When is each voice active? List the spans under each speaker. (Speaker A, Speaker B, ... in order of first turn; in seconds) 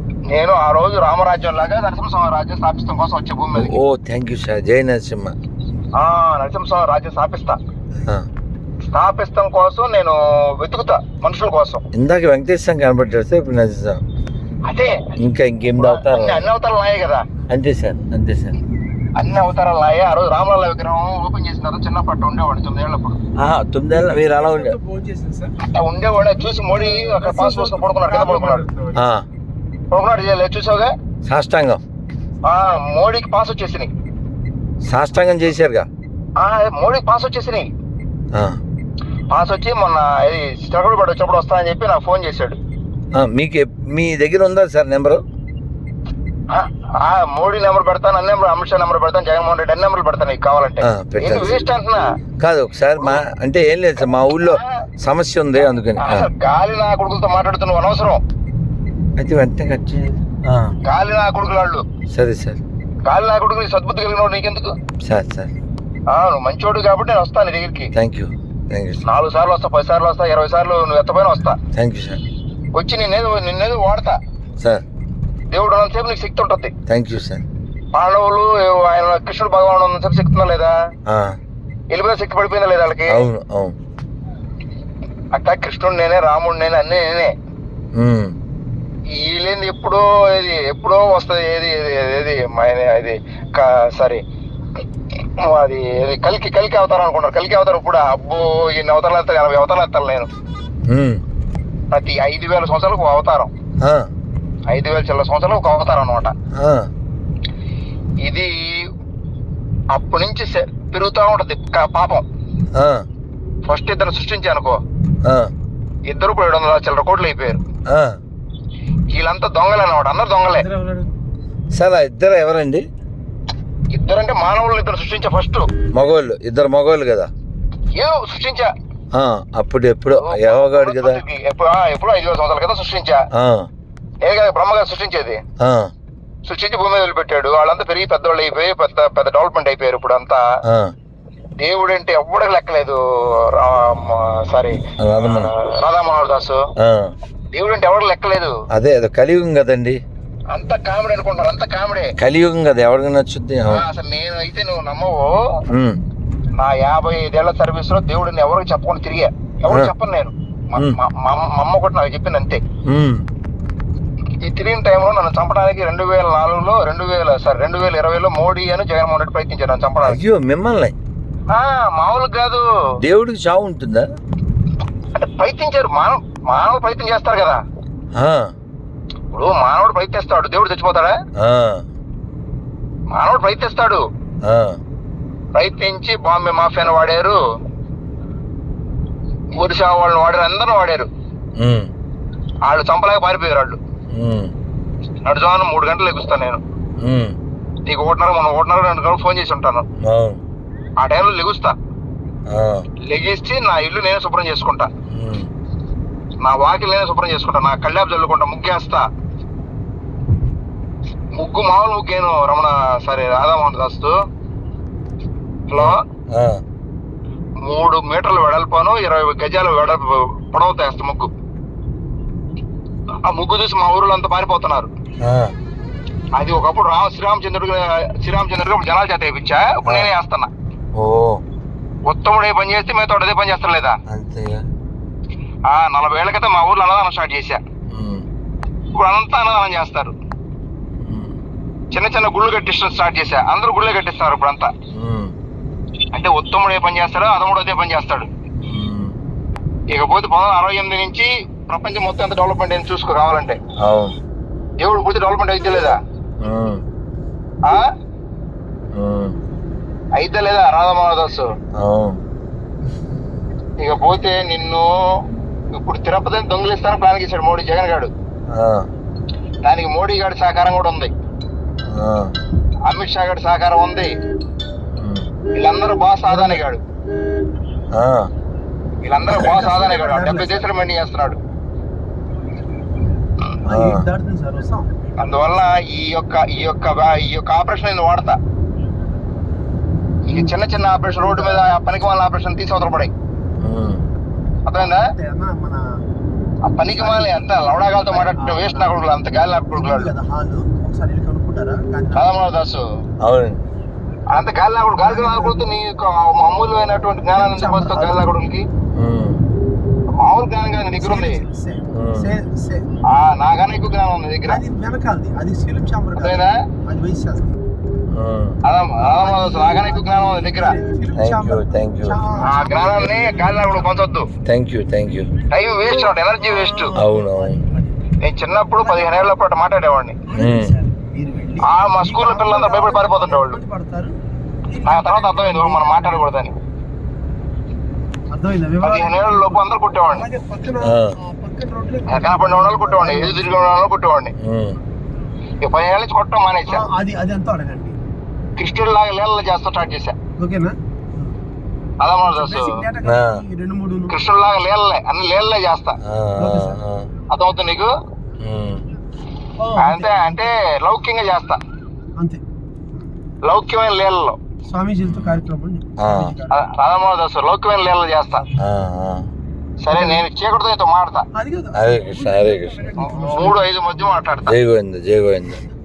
Speaker A: 0.3-3.7, 6.0-7.6, 8.9-11.8, 14.7-14.9, 15.8-17.2, 19.1-23.2, 25.6-28.6, 29.9-30.9, 32.4-33.9, 36.4-37.7, 39.3-42.6, 46.5-52.0, 54.4-54.7, 56.0-58.2, 60.8-61.8, 63.0-64.7, 66.1-67.9, 69.0-71.6, 72.7-74.2, 75.5-76.7, 77.9-80.7, 81.9-83.2, 85.3-87.3, 89.1-94.2, 95.4-100.3, 101.9-103.5, 104.7-106.3, 108.2-108.5, 109.9-112.2, 113.7-114.8, 116.1-117.6, 119.1-120.7, 123.9-125.7, 127.9-128.7, 130.2-133.2, 134.2-135.4, 136.4-140.4, 141.6-146.6, 147.5-148.5, 150.5-152.1, 153.7-155.3, 156.6-162.6, 164.4-170.2, 171.5-172.6, 175.1-177.6, 179.3-181.2, 183.1-184.0, 185.5-187.4, 189.6-191.1, 192.7-193.8, 195.2-196.6, 197.8-199.8, 201.0-201.7, 203.1-204.9, 206.4-209.0, 211.3-214.1, 215.7-216.0, 217.6-221.3, 223.2-224.9, 226.3-230.5, 232.1-234.0, 235.7-237.6, 238.9-240.1, 241.9-244.7, 246.1-248.3, 249.9-253.6, 254.8-256.0, 260.2-261.5, 263.8-264.9, 265.7-268.1, 269.6-271.1, 272.9-274.1, 275.6-276.8, 279.0-281.4, 285.2-288.4, 290.3-293.1, 294.6-295.1, 296.6-300.1, 302.1-302.8, 304.3-308.6, 310.1-311.4, 313.1-314.6, 316.1-316.5, 318.6-320.8, 322.4-324.3, 325.5-326.9, 328.2-330.2, 331.6-333.6, 334.8-336.5, 338.8-340.3, 342.1-344.3, 345.6-346.8, 348.6-350.1, 352.0-352.8, 354.1-356.0, 357.3-357.9, 359.8-361.6, 363.4-364.4, 366.5-368.4, 369.8-371.2, 373.0-374.5
Speaker B: 3.5-5.3, 11.9-14.0, 15.2-16.4, 17.5-18.5, 23.4-24.8, 28.9-29.2, 31.2-31.8, 34.9-35.9, 43.1-45.2, 50.9-51.7, 52.4-56.3, 59.2-60.7, 62.1-62.6, 65.0-65.5, 67.9-69.0, 71.7-72.2, 76.9-77.4, 81.1-81.3, 83.1-83.7, 88.0-88.3, 100.9-101.2, 103.8-104.1, 106.6-106.9, 112.7-113.0, 115.2-115.5, 117.9-118.2, 121.7-122.8, 125.9-127.3, 129.1-131.2, 133.4-133.7, 135.6-135.9, 145.0-145.5, 146.8-147.1, 148.7-150.0, 152.2-153.8, 155.7-156.0, 162.9-163.2, 170.0-170.9, 173.0-174.1, 178.2-178.5, 181.4-181.8, 184.4-184.8, 191.6-191.9, 194.1-194.5, 197.0-197.3, 200.0-200.4, 202.5-202.8, 205.1-205.5, 215.7-216.6, 225.2-225.5, 230.9-231.4, 234.1-234.6, 237.9-238.2, 241.0-241.4, 244.9-245.3, 248.6-249.2, 253.8-254.1, 256.4-256.8, 258.9-259.4, 261.8-262.2, 268.5-268.9, 271.9-272.3, 274.9-275.2, 277.9-278.3, 283.6-284.0, 293.6-294.0, 303.2-303.6, 308.9-309.4, 311.9-312.3, 318.1-318.6, 321.1-322.2, 324.4-325.3, 327.0-327.5, 330.3-330.8, 340.8-341.1, 344.4-344.8, 353.0-353.4, 356.0-357.1, 358.4-358.8, 365.0-365.4, 366.0-366.3, 368.6-369.3, 371.7-372.9, 374.4-375.6
Speaker C: 24.0-25.5, 26.4-29.0, 120.6-121.1, 276.3-276.6, 279.3-280.6, 283.6-284.9, 290.3-291.7, 294.8-295.9, 296.9-297.5, 298.1-298.9, 299.7-302.3, 304.9-305.7, 307.3-308.3, 311.0-312.9, 314.5-317.6, 319.0-323.9, 325.8-328.0, 328.8-329.3, 330.3-334.1, 334.7-336.3, 338.3-343.6, 346.7-347.9, 350.4-351.3, 352.2-354.1, 356.4-356.8, 359.6-360.5, 362.2-362.4, 364.7-366.6, 369.9-370.2, 371.3-374.2